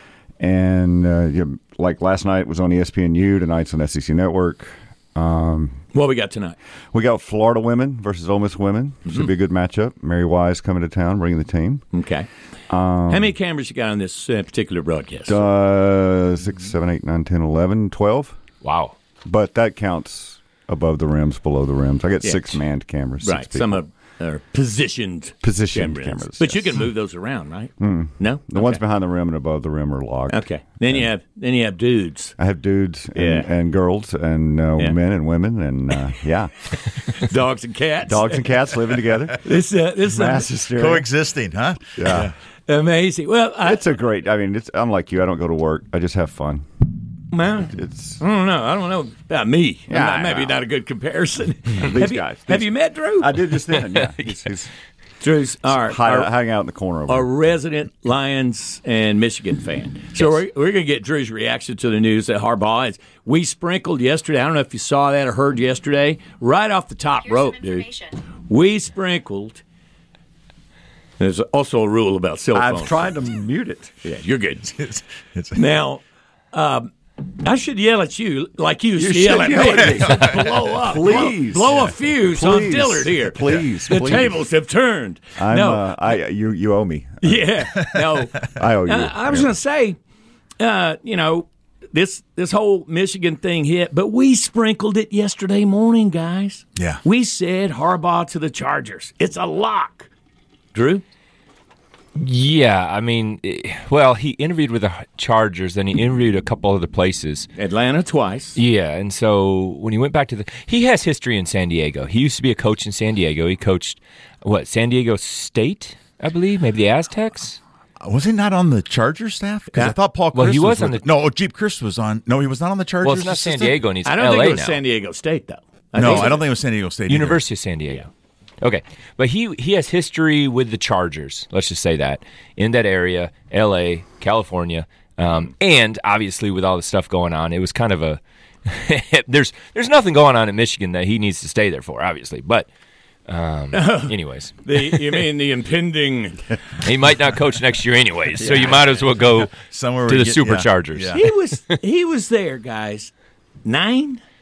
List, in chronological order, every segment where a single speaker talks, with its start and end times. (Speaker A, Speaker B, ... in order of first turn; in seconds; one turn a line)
Speaker A: 0.4-5.8
Speaker B: 5.9-6.6
Speaker A: 6.9-11.9
Speaker B: 11.9-12.3
Speaker A: 12.7-13.3
Speaker B: 13.1-15.4
Speaker A: 15.3-18.4
Speaker C: 18.6-18.9
Speaker A: 19.2-23.8
Speaker B: 22.2-22.6
Speaker B: 23.2-28.8
Speaker A: 25.4-26.9
Speaker A: 27.8-31.0
Speaker B: 30.3-32.4
Speaker A: 32.4-36.7
Speaker B: 33.1-33.5
Speaker B: 37.1-38.7
Speaker A: 38.0-41.1
Speaker B: 39.3-40.5
Speaker D: 40.8-42.4
Speaker A: 42.0-42.3
Speaker B: 42.7-43.9
Speaker A: 43.6-46.7
Speaker B: 47.3-53.5
Speaker A: 47.7-48.2
Speaker A: 49.9-50.6
Speaker A: 51.7-54.7
Speaker C: 54.0-54.4
Speaker B: 55.2-56.3
Speaker A: 55.7-57.3
Speaker B: 57.1-69.6
Speaker B: 71.2-73.1
Speaker A: 72.5-74.0
Speaker B: 74.0-74.8
Speaker D: 74.8-75.6
Speaker B: 75.5-76.0
Speaker B: 76.5-86.1
Speaker A: 79.0-84.4
Speaker D: 79.9-80.2
Speaker A: 85.4-87.5
Speaker B: 87.2-90.0
Speaker A: 88.5-89.5
Speaker B: 90.6-100.1
Speaker D: 96.8-97.0
Speaker B: 100.7-101.0
Speaker C: 102.2-107.5
Speaker B: 107.6-108.6
Speaker C: 108.6-117.6
Speaker D: 118.0-123.8
Speaker C: 120.3-121.1
Speaker C: 123.0-124.8
Speaker B: 124.0-126.4
Speaker D: 126.0-127.4
Speaker C: 126.0-126.3
Speaker C: 127.1-128.1
Speaker C: 128.6-142.7
Speaker C: 143.3-145.2
Speaker B: 143.7-146.4
Speaker C: 146.8-151.3
Speaker B: 148.4-148.8
Speaker D: 149.6-151.2
Speaker B: 151.1-153.1
Speaker B: 153.7-154.2